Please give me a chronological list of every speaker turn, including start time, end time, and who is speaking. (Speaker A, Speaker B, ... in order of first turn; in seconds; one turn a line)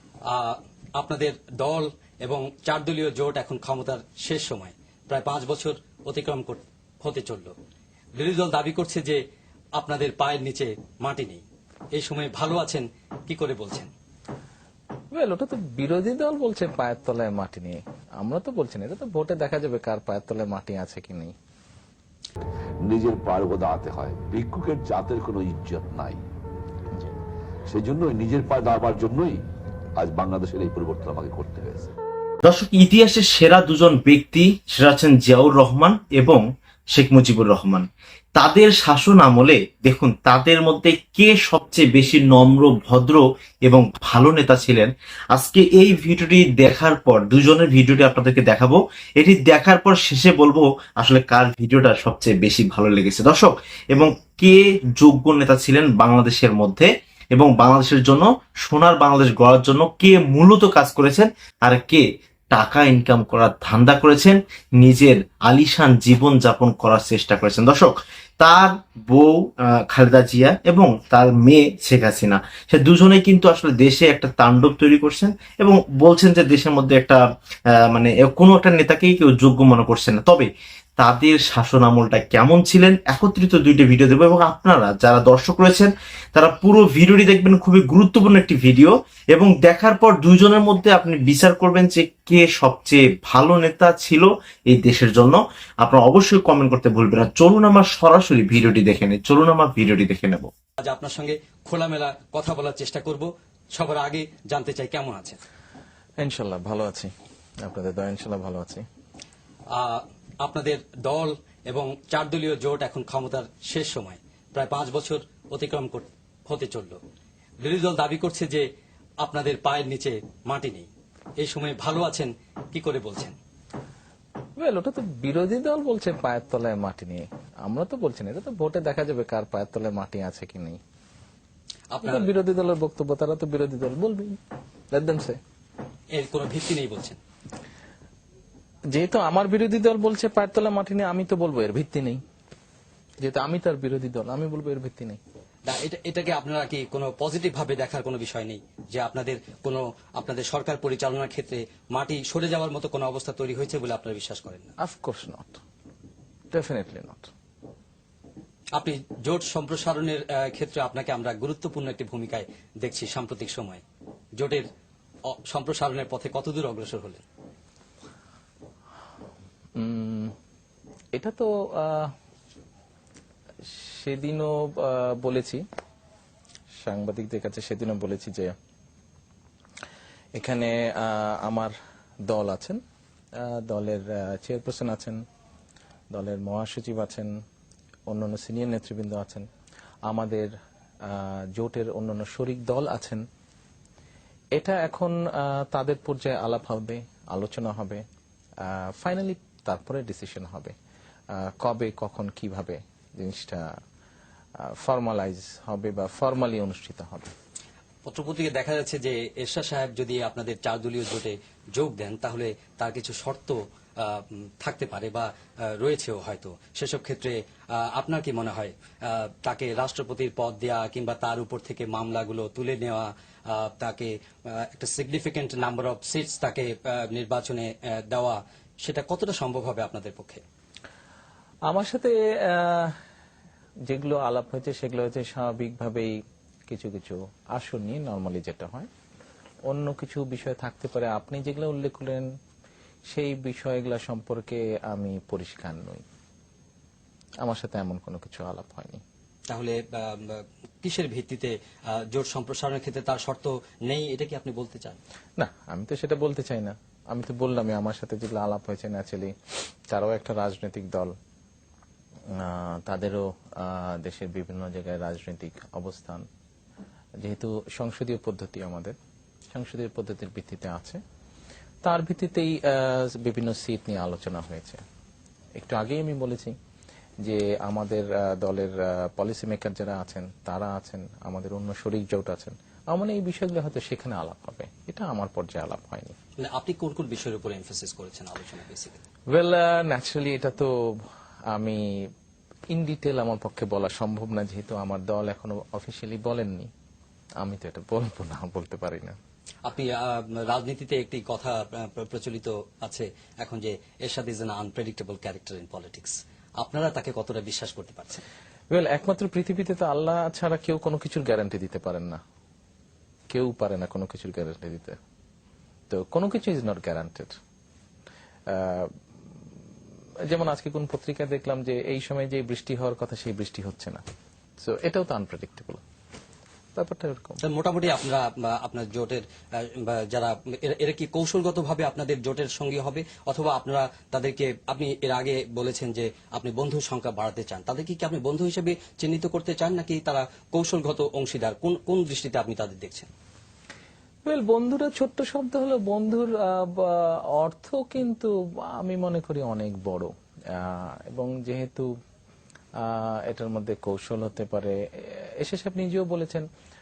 Speaker A: 0.3-7.5
Speaker A: 8.2-9.2
Speaker A: 9.8-13.9
Speaker B: 15.1-21.4
Speaker C: 22.8-26.2
Speaker C: 27.7-29.4
Speaker C: 30.0-31.9
Speaker D: 32.4-77.2
Speaker D: 77.9-100.5
Speaker A: 100.8-105.4
Speaker B: 106.2-107.1
Speaker B: 107.6-108.8
Speaker A: 109.7-117.0
Speaker A: 117.6-118.7
Speaker A: 119.2-123.4
Speaker B: 124.6-130.8
Speaker A: 131.9-132.3
Speaker B: 132.0-134.4
Speaker B: 134.9-135.4
Speaker A: 136.1-137.2
Speaker B: 138.9-142.2
Speaker B: 143.2-145.2
Speaker A: 145.7-154.7
Speaker B: 154.8-155.6
Speaker B: 156.5-157.3
Speaker A: 158.8-163.8
Speaker A: 164.4-164.7
Speaker A: 165.3-167.2
Speaker B: 169.8-170.3
Speaker B: 171.2-172.1
Speaker B: 173.7-175.6
Speaker B: 176.8-178.5
Speaker B: 180.3-181.7
Speaker B: 182.3-182.8
Speaker B: 183.4-185.2
Speaker B: 186.1-187.3
Speaker B: 188.1-189.5
Speaker B: 190.1-190.5
Speaker B: 191.0-193.2
Speaker B: 194.5-198.0
Speaker B: 198.6-200.7
Speaker B: 201.3-203.7
Speaker B: 204.6-207.3
Speaker A: 208.1-230.4
Speaker B: 231.7-232.9
Speaker B: 233.9-236.1
Speaker B: 236.7-238.9
Speaker B: 239.7-242.3
Speaker B: 243.1-246.0
Speaker B: 247.4-249.0
Speaker A: 249.5-255.0
Speaker B: 255.4-259.3
Speaker B: 259.9-261.1
Speaker B: 262.4-266.2
Speaker B: 267.2-268.9
Speaker B: 269.5-271.0
Speaker B: 271.8-274.8
Speaker B: 275.6-276.6
Speaker B: 277.2-286.1
Speaker A: 286.4-289.0
Speaker B: 289.3-291.8
Speaker B: 292.7-296.7
Speaker B: 297.4-299.2
Speaker A: 299.6-308.2
Speaker B: 308.7-312.2
Speaker B: 313.3-315.0
Speaker B: 315.9-317.4
Speaker B: 318.5-318.9
Speaker B: 320.3-324.0
Speaker B: 324.6-325.8
Speaker B: 326.8-327.4
Speaker A: 327.4-343.1
Speaker B: 344.3-351.9
Speaker B: 352.8-356.5